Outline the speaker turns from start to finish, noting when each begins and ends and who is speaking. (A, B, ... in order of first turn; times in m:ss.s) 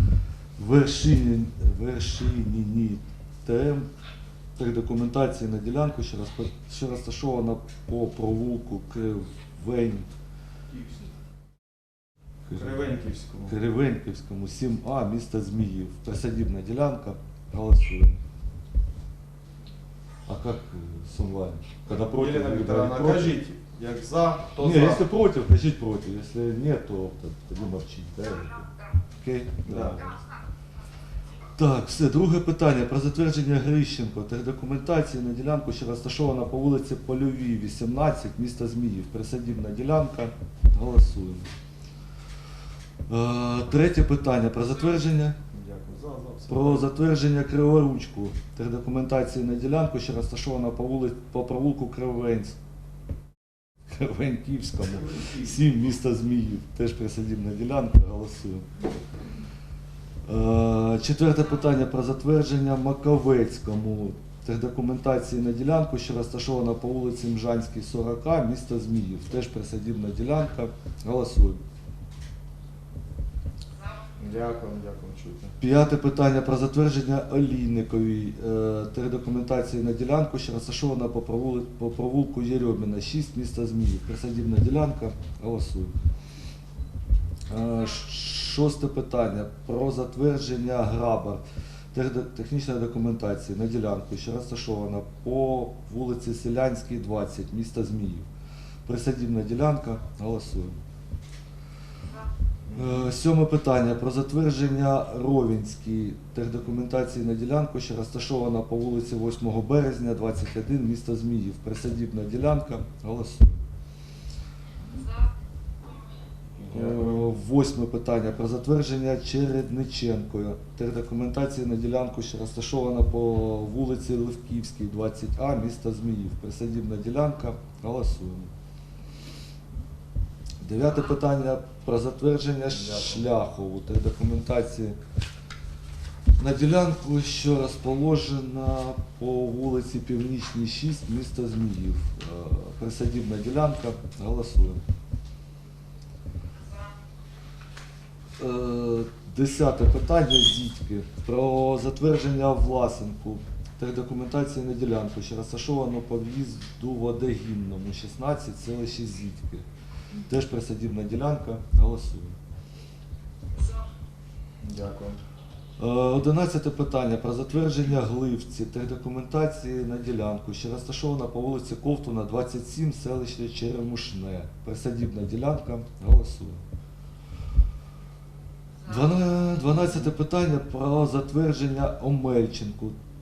0:00.6-0:03.9 A
0:04.6-0:10.1 A
0:12.5-0:12.8 A
0:12.5-0:13.5 B
0:13.5-0:18.2 A
0:20.3-0:23.4 A
0:21.9-0:25.0 B
0:24.6-0:28.6 A
0:29.2-0:30.1 A
0:29.6-0:30.1 B
0:31.6-0:41.5 A
0:43.1-0:45.4 A
0:45.5-0:46.9 B
0:46.5-0:52.6 A
0:53.9-0:58.6 A
1:00.2-1:11.6 A
1:14.2-1:15.5 B
1:15.6-1:25.9 A
1:27.5-1:31.4 A
1:31.9-1:38.3 A
1:38.8-1:40.8 A
1:42.7-1:43.1 B
1:42.7-1:53.6 A
1:56.6-1:57.2 B
1:56.7-2:08.5 A
2:10.6-2:15.0 A
2:12.7-2:13.2 B
2:16.4-2:24.8 A
2:28.4-2:39.6 A
2:40.3-2:42.4 A
2:44.6-2:45.2 B
2:45.8-2:56.6 A
2:58.8-3:03.0 A